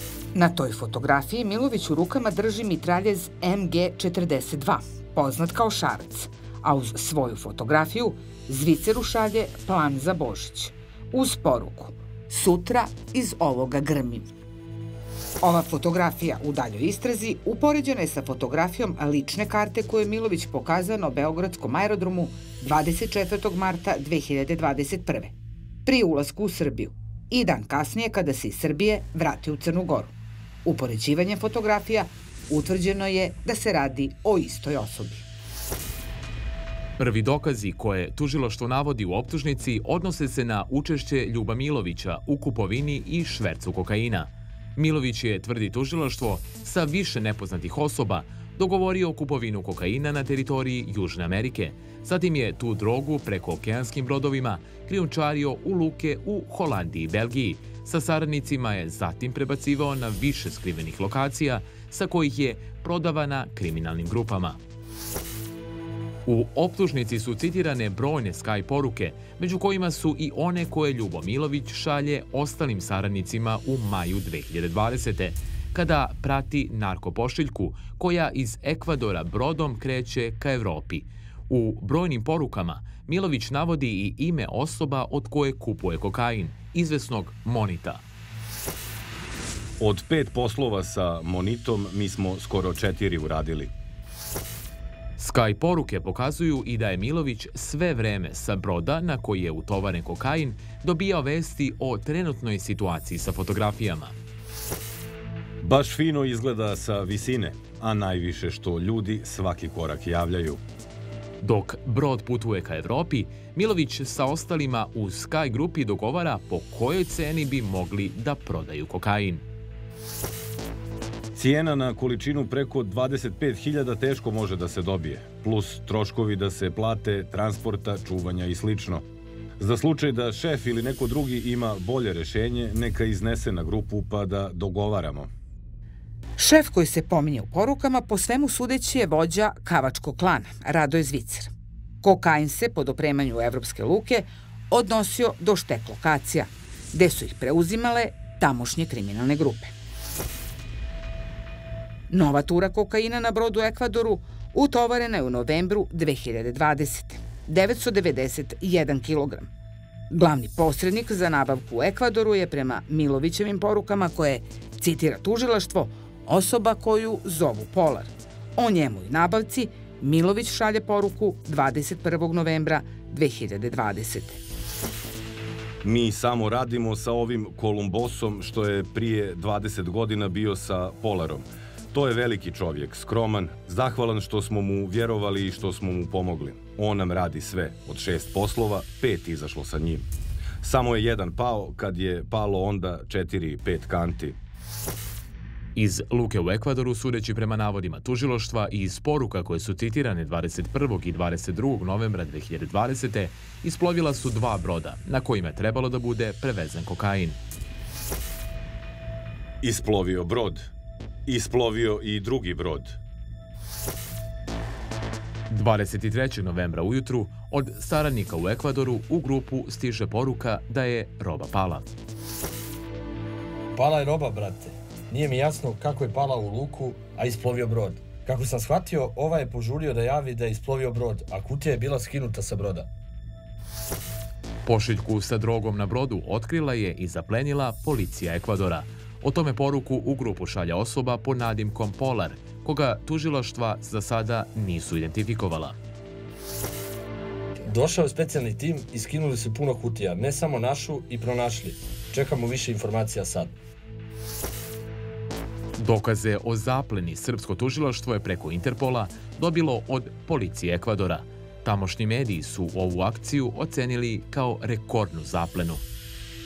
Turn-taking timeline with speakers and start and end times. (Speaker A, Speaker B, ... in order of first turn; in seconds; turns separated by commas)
Speaker A: 0.3-14.3, Speaker A: 15.4-25.3, Speaker A: 25.9-30.1, Speaker A: 30.6-35.2, Speaker B: 37.0-64.6, Speaker B: 66.2-88.0, Speaker C: 89.8-93.7, Speaker B: 95.2-104.1, Speaker C: 105.6-110.6, Speaker B: 111.4-119.4, Speaker C: 121.3-129.1, Speaker C: 129.6-135.3, Speaker A: 136.4-141.5, Speaker A: 142.0-149.7, Speaker A: 152.1-159.5, Speaker A: 160.1-174.4, Speaker C: 175.8-190.1, Speaker C: 190.6-194.4, Speaker B: 195.8-207.4, Speaker C: 209.6-210.7, Speaker C: 211.3-213.0, Speaker B: 215.5-221.9, Speaker D: 223.7-232.9, Speaker B: 234.6-245.8, Speaker D: 247.6-253.5, Speaker B: 255.8-265.8